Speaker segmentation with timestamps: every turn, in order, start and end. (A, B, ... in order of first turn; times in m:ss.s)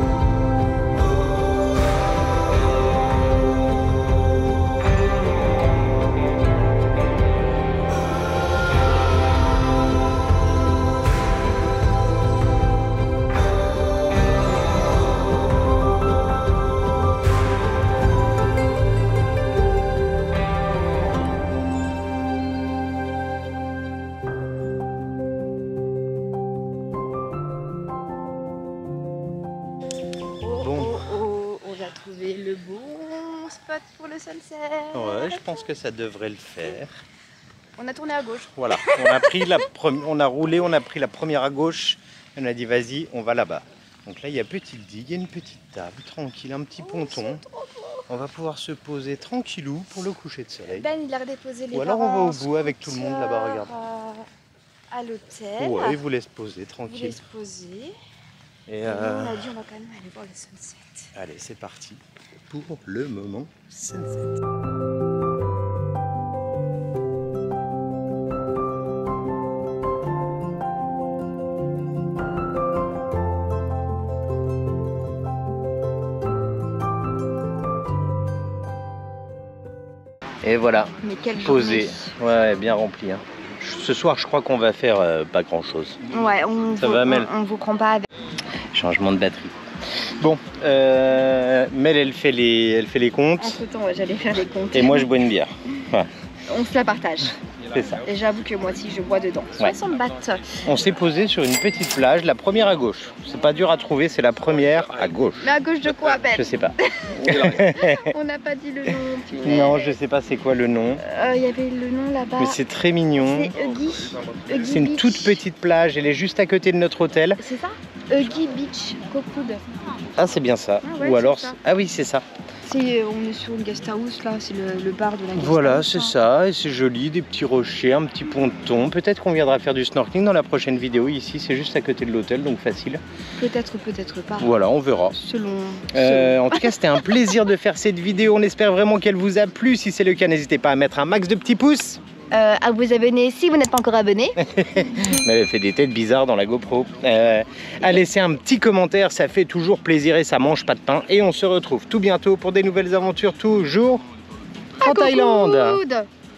0:30.4-0:35.7 A
0:30.6-0:31.0 B
0:34.9-0:37.0 B
0:37.8-0:39.4 A
0:38.6-0:47.4 B
0:46.8-0:48.0 A
0:48.1-0:50.9 B
0:50.7-0:54.3 A
0:51.7-0:53.7 B
0:54.9-0:56.0 A
0:55.6-0:57.2 B
0:56.9-0:58.0 A
0:58.7-0:59.5 B
0:58.8-1:01.1 A
1:01.1-1:04.3 B
1:20.4-1:26.0 B
1:21.0-1:22.1 A
1:26.1-1:28.1 A
1:26.8-1:27.3 B
1:28.7-1:29.6 B
1:30.2-1:33.6 B
1:33.4-1:35.1 A
1:34.7-1:36.1 B
1:36.5-1:37.4 A
1:37.7-1:38.0 B
1:38.1-1:40.4 A
1:40.6-1:48.1 B
1:45.4-1:50.0 A
1:49.4-1:51.0 B
1:51.0-1:52.6 A
1:52.4-1:53.5 B
1:53.2-1:55.4 A
1:54.5-1:57.4 B
1:57.4-1:59.6 A
2:00.2-2:02.2 B
2:00.8-2:01.6 A
2:02.6-2:06.2 A
2:05.4-2:13.0 B
2:13.4-2:14.5 A
2:14.4-2:15.2 B
2:15.2-2:17.1 A
2:15.9-2:22.0 B
2:22.3-2:24.4 A
2:24.4-2:34.0 B
2:34.8-2:35.8 B
2:34.8-2:36.1 A